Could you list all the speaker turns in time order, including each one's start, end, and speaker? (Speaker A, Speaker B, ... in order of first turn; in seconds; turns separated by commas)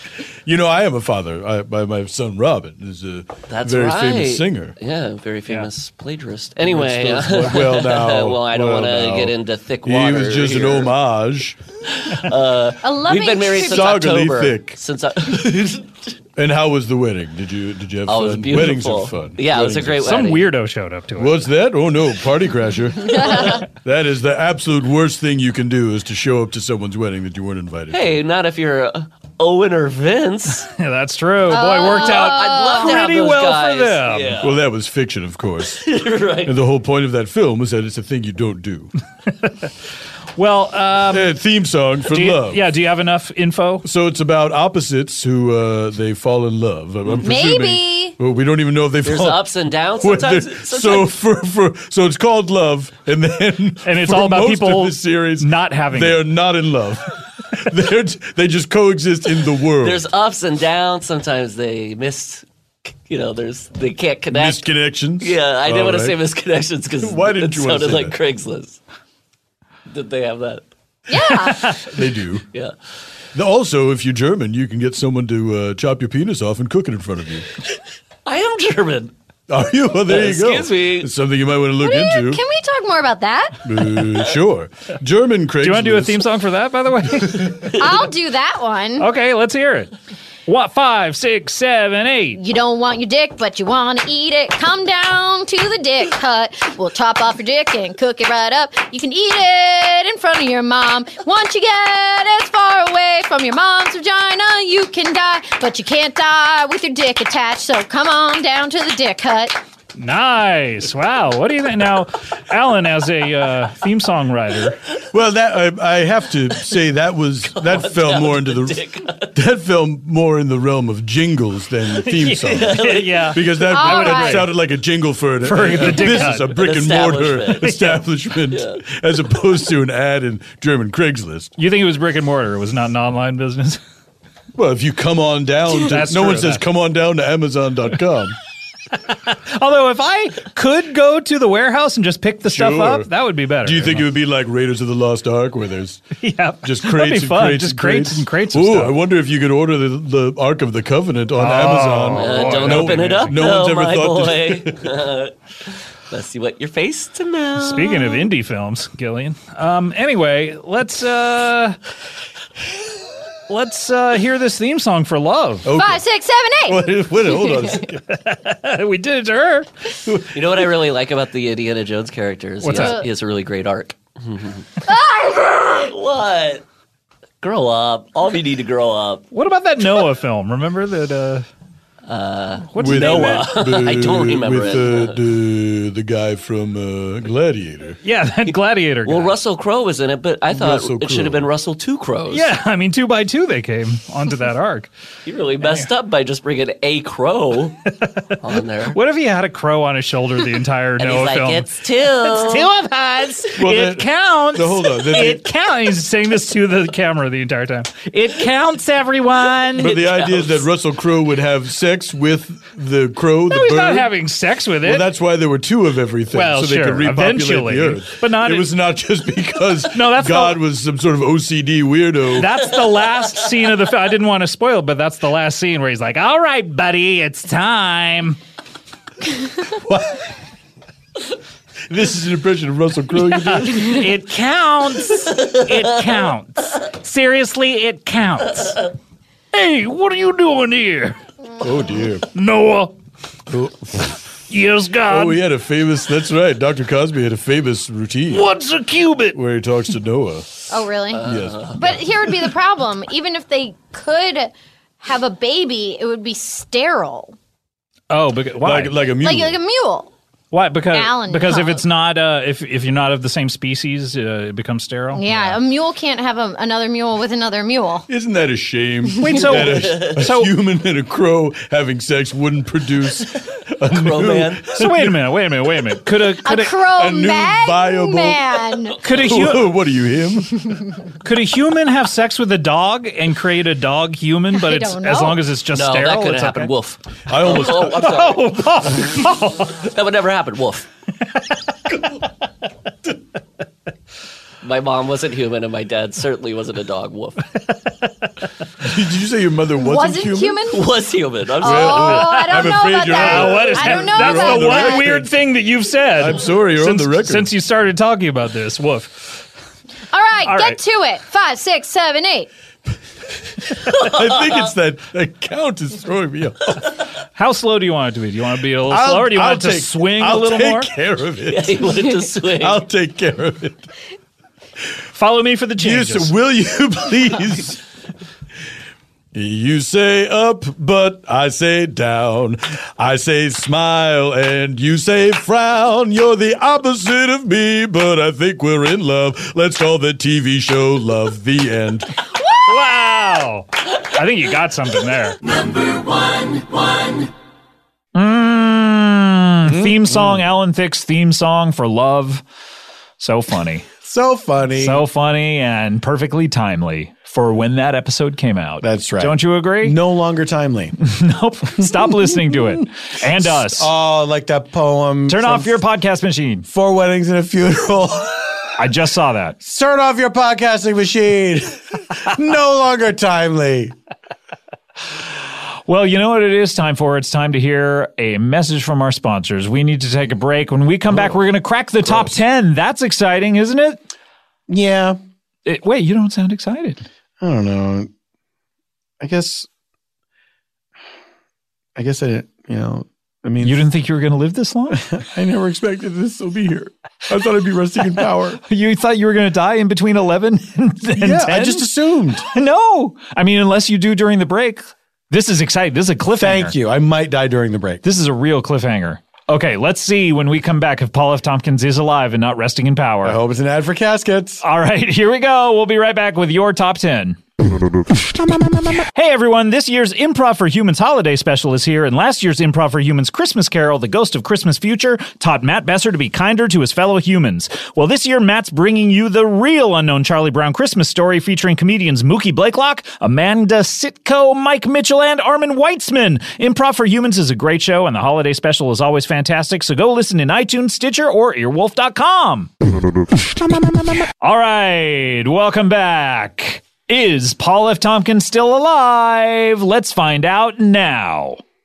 Speaker A: 0.5-4.7, Speaker B: 3.5-10.9, Speaker A: 6.6-11.6, Speaker B: 11.9-16.1, Speaker C: 12.8-13.9, Speaker A: 13.5-14.8, Speaker A: 16.4-20.2, Speaker B: 18.1-20.5, Speaker D: 20.0-21.4, Speaker A: 21.2-28.1, Speaker B: 23.3-23.6, Speaker B: 27.9-30.7, Speaker D: 30.7-34.4, Speaker C: 31.5-33.0, Speaker B: 31.8-34.6, Speaker A: 34.4-35.8, Speaker B: 35.8-36.6, Speaker A: 36.4-38.9, Speaker D: 39.4-39.7, Speaker D: 40.4-41.3, Speaker A: 41.1-42.7, Speaker D: 42.1-43.9, Speaker A: 43.8-49.5, Speaker C: 47.2-48.1, Speaker B: 49.0-51.2, Speaker A: 50.0-60.1, Speaker D: 53.8-56.2, Speaker B: 59.8-62.4, Speaker B: 63.1-64.7, Speaker A: 64.3-66.2, Speaker B: 65.2-68.8, Speaker A: 67.0-68.2, Speaker B: 69.9-70.6, Speaker C: 71.1-71.7, Speaker D: 71.5-71.8, Speaker A: 71.8-72.4, Speaker A: 73.3-77.5, Speaker B: 78.2-79.1, Speaker A: 79.5-82.4, Speaker B: 80.0-81.1, Speaker C: 81.8-83.6, Speaker A: 83.6-86.2, Speaker D: 85.6-87.6, Speaker C: 87.8-89.1, Speaker D: 89.0-89.9, Speaker D: 90.5-92.4, Speaker C: 92.3-109.6, Speaker D: 110.0-114.8, Speaker A: 115.1-118.8, Speaker B: 117.5-119.4, Speaker A: 119.3-131.5, Speaker D: 122.0-124.5, Speaker B: 122.5-123.5, Speaker C: 123.7-124.5, Speaker D: 125.4-126.6, Speaker B: 125.7-128.8, Speaker D: 127.7-128.0, Speaker D: 131.6-133.8, Speaker A: 134.5-138.3, Speaker D: 135.7-136.6, Speaker D: 139.2-144.1, Speaker A: 142.4-143.1, Speaker A: 143.6-146.0, Speaker D: 146.2-149.0, Speaker A: 146.6-154.8, Speaker D: 151.4-153.4, Speaker B: 152.1-155.3, Speaker B: 156.1-158.2, Speaker D: 157.6-161.8, Speaker D: 163.5-165.7, Speaker A: 165.6-166.0, Speaker C: 165.7-167.8, Speaker A: 166.6-168.0, Speaker D: 168.1-169.7, Speaker A: 170.1-170.6, Speaker B: 170.3-174.7, Speaker D: 172.6-173.0, Speaker C: 172.7-173.1, Speaker C: 174.8-175.6, Speaker B: 175.5-176.6, Speaker B: 177.4-179.2, Speaker D: 179.3-181.4, Speaker B: 182.1-185.2, Speaker D: 182.7-183.5, Speaker A: 182.8-188.0, Speaker D: 188.0-189.3, Speaker B: 189.1-192.5, Speaker A: 190.5-191.5, Speaker D: 192.3-194.9, Speaker B: 195.2-197.8, Speaker D: 195.6-195.9, Speaker B: 198.4-199.0, Speaker D: 198.9-210.0, Speaker B: 201.0-202.7, Speaker A: 203.6-205.4, Speaker A: 209.8-214.1, Speaker B: 209.8-210.7, Speaker D: 213.5-215.1, Speaker A: 214.8-222.5, Speaker D: 216.3-218.7, Speaker D: 219.9-220.6, Speaker D: 222.3-228.4, Speaker A: 229.9-230.2, Speaker A: 231.9-234.0, Speaker D: 233.3-238.8, Speaker D: 239.5-241.2, Speaker A: 241.6-242.2, Speaker D: 242.3-242.9, Speaker A: 243.5-244.1, Speaker D: 244.5-245.4, Speaker A: 245.1-248.5, Speaker D: 248.3-249.4, Speaker A: 249.3-250.5, Speaker C: 250.7-257.3, Speaker B: 251.1-251.8, Speaker A: 251.2-252.1, Speaker D: 258.1-259.0, Speaker A: 258.6-259.6, Speaker C: 259.2-260.1, Speaker D: 260.5-265.6, Speaker C: 260.9-261.8, Speaker C: 265.1-268.1, Speaker A: 268.1-275.2, Speaker D: 269.2-270.5, Speaker B: 269.6-270.2, Speaker B: 273.9-274.7, Speaker D: 274.8-276.8, Speaker C: 276.4-279.0, Speaker A: 276.8-280.6, Speaker D: 279.0-279.7, Speaker D: 281.2-286.7, Speaker C: 284.5-285.4, Speaker B: 285.7-289.0, Speaker A: 287.3-288.2, Speaker D: 287.9-289.8, Speaker B: 289.8-290.9, Speaker B: 294.6-297.4, Speaker A: 298.8-300.7, Speaker C: 299.8-300.8, Speaker B: 300.7-302.3, Speaker A: 301.6-305.3, Speaker C: 301.6-305.1, Speaker D: 303.2-309.4, Speaker A: 306.1-307.5, Speaker C: 310.1-312.5, Speaker D: 310.4-310.8, Speaker B: 313.9-314.7, Speaker A: 314.0-316.8, Speaker D: 317.4-320.9, Speaker A: 318.9-322.0, Speaker B: 321.5-322.9, Speaker A: 322.5-323.9, Speaker D: 325.1-326.3, Speaker A: 325.8-327.8, Speaker A: 329.3-342.1, Speaker D: 342.7-345.4, Speaker D: 348.1-352.4, Speaker E: 349.7-350.1, Speaker D: 353.2-353.9, Speaker E: 354.0-355.0, Speaker D: 354.8-360.0, Speaker E: 358.8-360.9, Speaker D: 361.0-363.9, Speaker E: 363.4-365.8, Speaker D: 365.3-366.6, Speaker E: 366.7-368.7, Speaker D: 368.8-369.6, Speaker E: 369.6-373.9, Speaker D: 375.9-384.0, Speaker E: 384.7-385.2, Speaker D: 385.6-387.0, Speaker E: 387.4-388.1, Speaker E: 389.2-389.7, Speaker E: 391.9-393.8, Speaker D: 393.6-395.0, Speaker E: 394.9-398.6, Speaker D: 398.6-401.9, Speaker E: 401.1-402.4, Speaker D: 402.4-406.8, Speaker E: 406.4-408.0, Speaker D: 408.0-413.4, Speaker E: 413.2-414.6, Speaker D: 414.6-417.4, Speaker D: 419.1-442.7, Speaker D: 444.4-451.6